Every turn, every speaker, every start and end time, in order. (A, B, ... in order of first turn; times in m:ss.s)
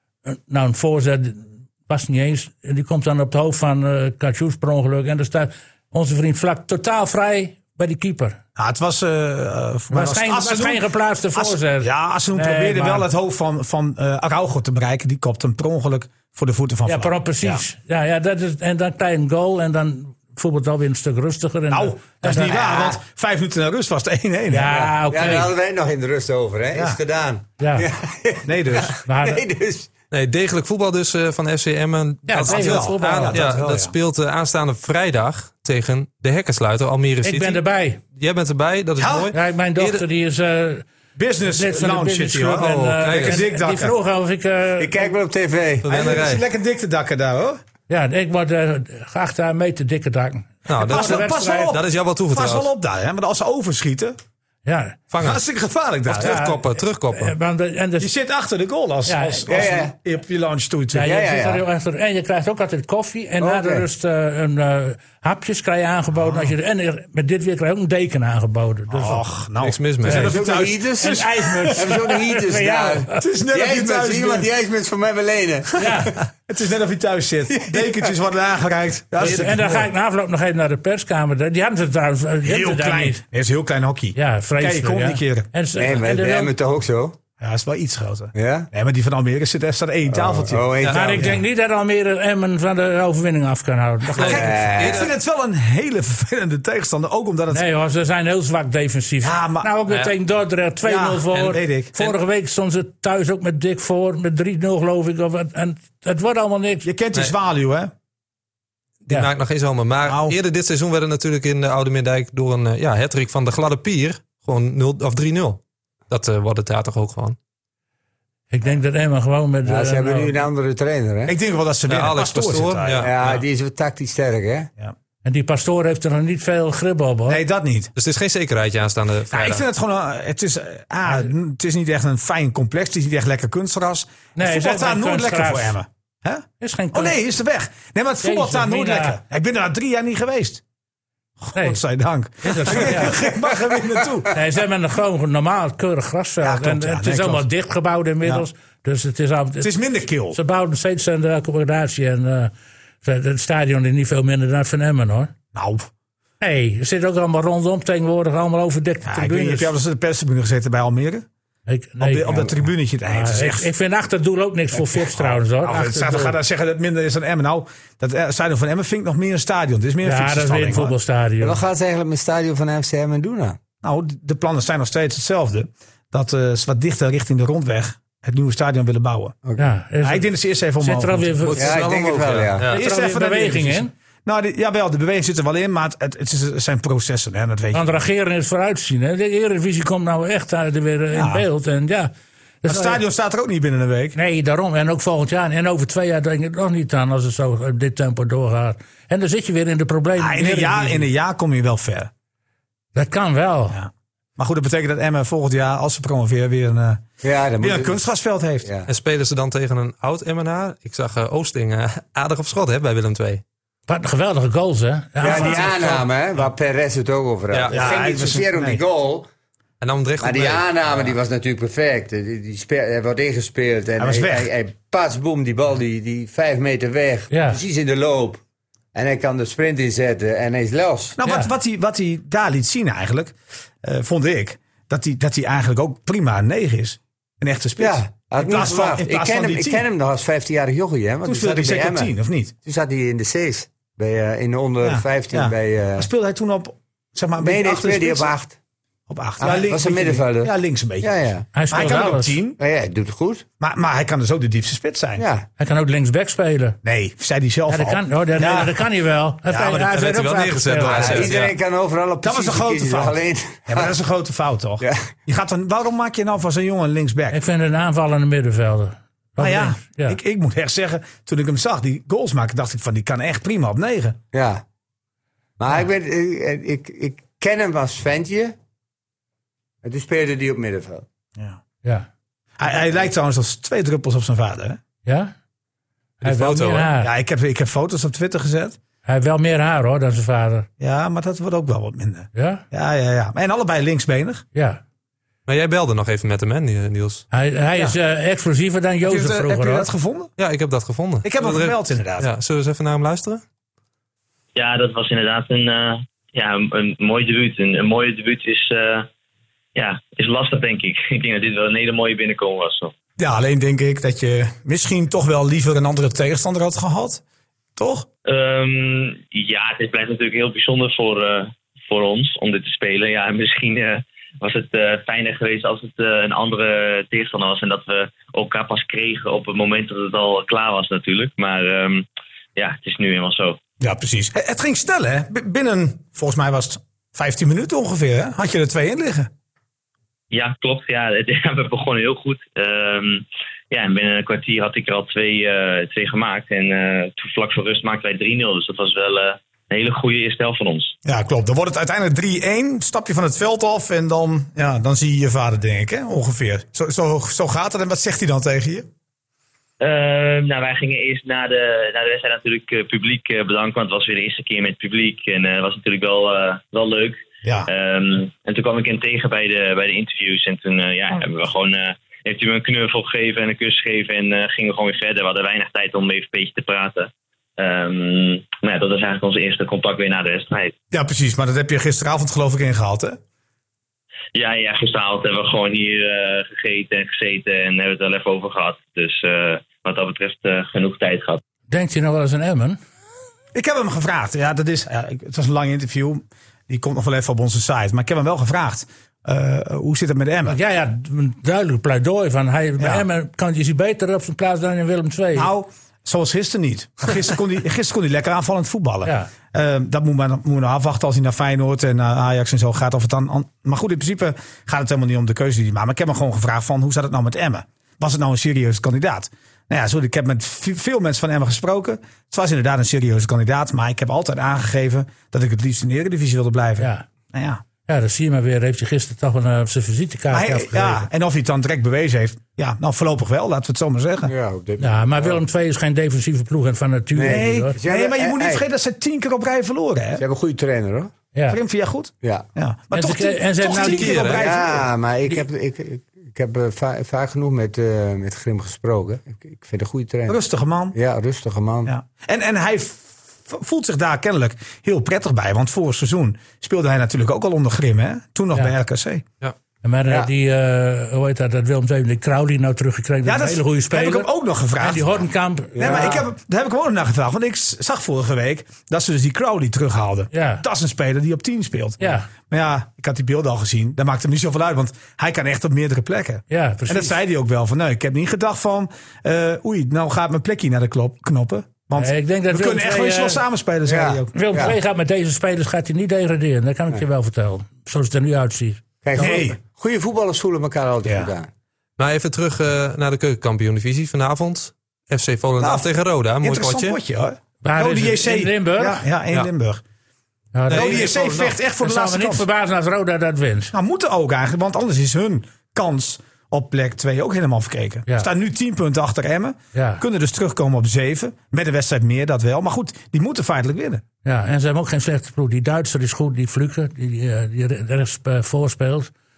0:00.2-0:08.4 A
0:08.6-0:17.6 B
0:09.9-0:13.1 A
0:16.8-0:22.6 A
0:21.7-0:24.8 B
0:22.4-0:23.0 C
0:24.5-0:25.5 A
0:24.7-0:29.9 C
0:27.6-0:27.9 A
0:28.4-0:29.0 B
0:29.0-0:29.4 A
0:30.1-0:37.6 D
0:32.3-0:33.4 A
0:32.4-0:33.9 B
0:37.2-0:38.0 A
0:38.1-0:40.0 D
0:39.0-0:39.3 B
0:39.3-0:40.8 A
0:41.2-0:43.9 B
0:41.5-0:45.1 A
0:42.6-0:43.4 D
0:44.8-0:45.9 C
0:45.8-0:46.4 D
0:45.9-0:47.6 B
0:47.9-0:51.7 A
0:50.7-0:52.7 D
0:50.8-0:54.2 B
0:54.6-0:55.0 A
0:55.1-0:55.4 D
0:55.2-0:56.4 B
0:56.1-0:57.3 D
0:56.1-0:58.1 A
0:58.0-1:01.1 B
0:59.0-0:59.8 A
0:59.5-0:59.9 C
1:00.9-1:09.3 A
1:01.0-1:01.6 C
1:03.4-1:03.8 C
1:06.2-1:06.5 B
1:08.9-1:11.9 B
1:09.6-1:10.3 D
1:10.0-1:10.3 A
1:10.1-1:11.2 C
1:11.0-1:13.2 A
1:11.7-1:16.1 C
1:13.1-1:14.5 B
1:15.8-1:16.1 A
1:16.5-1:19.9 B
1:17.5-1:18.1 C
1:19.2-1:23.2 A
1:22.4-1:25.5 B
1:24.1-1:26.5 A
1:25.8-1:27.2 C
1:27.4-1:31.4 B
1:28.3-1:28.7 C
1:30.1-1:31.3 C
1:30.8-1:31.2 D
1:30.9-1:34.5 A
1:34.2-1:35.1 D
1:34.2-1:35.1 C
1:34.2-1:37.6 B
1:37.5-1:46.9 A
1:39.2-1:39.7 B
1:40.8-1:41.9 B
1:41.3-1:42.1 D
1:46.8-1:47.9 B
1:49.0-1:57.4 D
1:50.0-1:50.3 B
1:58.5-2:00.3 A
1:59.6-2:01.3 C
2:01.2-2:03.1 B
2:01.9-2:03.4 D
2:03.0-2:04.7 C
2:05.2-2:07.4 A
2:07.3-2:07.9 B
2:08.0-2:09.6 D
2:09.3-2:20.6 B
2:11.0-2:11.3 A
2:14.4-2:15.8 A
2:16.6-2:17.2 A
2:18.2-2:19.2 A
2:21.4-2:24.4 B
2:21.5-2:21.8 A
2:22.4-2:23.2 A
2:23.1-2:23.7 C
2:24.3-2:29.7 A
2:26.4-2:27.4 B
2:29.6-2:30.4 B
2:30.3-2:32.5 A
2:33.0-2:35.3 A
2:35.5-2:35.9 B
2:36.4-2:39.7 A
2:39.0-2:41.2 B
2:41.7-2:46.4 A
2:42.0-2:43.7 B
2:44.7-2:50.9 B
2:50.0-2:51.6 A
2:51.4-2:53.6 C
2:53.8-2:59.3 B
2:59.6-3:01.7 A
3:00.0-3:01.7 B
3:01.5-3:02.8 D
3:01.6-3:02.7 C
3:02.7-3:07.9 B
3:02.7-3:03.9 A
3:07.7-3:12.1 A
3:11.1-3:11.4 B
3:12.6-3:13.0 A
3:12.7-3:14.1 B
3:14.1-3:21.1 A
3:20.2-3:22.1 B
3:22.9-3:23.8 A
3:23.7-3:27.0 B
3:27.2-3:28.0 C
3:27.6-3:28.7 B
3:28.9-3:33.4 D
3:33.9-3:36.0 A
3:35.2-3:39.3 C
3:35.2-3:36.0 B
3:37.5-3:37.8 D
3:37.7-3:38.8 B
3:39.8-3:41.1 D
3:40.2-3:48.4 C
3:44.0-3:44.5 B
3:47.3-3:47.6 A
3:48.9-3:51.2 C
3:51.2-3:59.8 B
3:51.2-3:51.5 A
3:57.8-4:02.1 C
4:01.2-4:02.5 B
4:02.6-4:06.1 C
4:04.8-4:08.3 B
4:07.4-4:08.6 C
4:09.1-4:11.1 B
4:09.4-4:11.5 C
4:11.5-4:12.4 A
4:11.7-4:12.6 B
4:12.6-4:13.4 C
4:13.6-4:15.2 B
4:15.2-4:15.5 C
4:15.6-4:16.8 A
4:16.8-4:18.8 B
4:17.7-4:21.3 A
4:19.5-4:21.5 D
4:20.9-4:23.9 C
4:22.2-4:23.2 B
4:23.7-4:27.4 B
4:24.8-4:25.1 C
4:27.3-4:30.2 A
4:29.4-4:34.2 B
4:34.3-4:34.6 C
4:35.6-4:38.5 C
4:39.8-4:41.0 C
4:42.6-4:44.8 B
4:45.0-4:45.3 A
4:46.2-4:47.1 A
4:46.2-4:46.9 D
4:47.0-4:48.8 B
4:49.0-4:50.7 A
4:50.8-4:54.4 B
4:52.3-4:52.6 A
4:54.5-4:54.8 A
4:55.4-4:57.2 D
4:57.3-4:59.9 A
4:59.0-5:00.3 B
5:00.4-5:03.4 D
5:01.2-5:02.3 B
5:04.6-5:09.1 E
5:09.7-5:12.9 E
5:13.2-5:17.2 B
5:17.8-5:18.1 B
5:18.3-5:33.6 E
5:33.8-5:39.3 B
5:40.3-5:50.9 E
5:51.0-5:58.9 B
5:59.8-6:20.7 E
6:07.4-6:07.7 B
6:20.9-6:23.2 B
6:24.3-6:31.4 E
6:31.7-6:32.8 A
6:33.5-6:40.6 B
6:40.4-6:45.5 A
6:42.8-6:43.0 B
6:45.3-7:07.6 B
6:49.0-6:49.3 A
7:06.8-7:07.0 A
7:07.9-7:11.1 A
7:10.3-7:14.3 B
7:14.2-7:15.4 C
7:14.8-7:17.8 A
7:17.1-7:18.6 C
7:17.2-7:20.2 B
7:20.2-7:21.1 C
7:21.5-7:24.9 B
7:22.9-7:24.4 A
7:23.7-7:24.4 D
7:24.4-7:30.4 C
7:30.3-7:30.9 B
7:30.9-7:31.9 C
7:31.8-7:39.2 B
7:39.8-7:46.1 A
7:43.2-7:45.2 B
7:45.8-8:04.6 B
7:45.8-7:46.3 C
7:50.3-7:50.6 A
7:52.0-7:52.3 A
7:56.5-7:57.2 A
8:02.0-8:03.4 A
8:03.8-8:04.8 C
8:04.3-8:08.8 A
8:09.0-8:11.5 C
8:09.2-8:09.6 B
8:12.0-8:17.0 D
8:15.6-8:19.8 B
8:17.6-8:19.0 A
8:20.5-8:23.7 A
8:20.7-8:21.1 D
8:20.7-8:22.5 B
8:23.7-8:34.0 B
8:29.7-8:30.0 A
8:34.2-8:39.1 A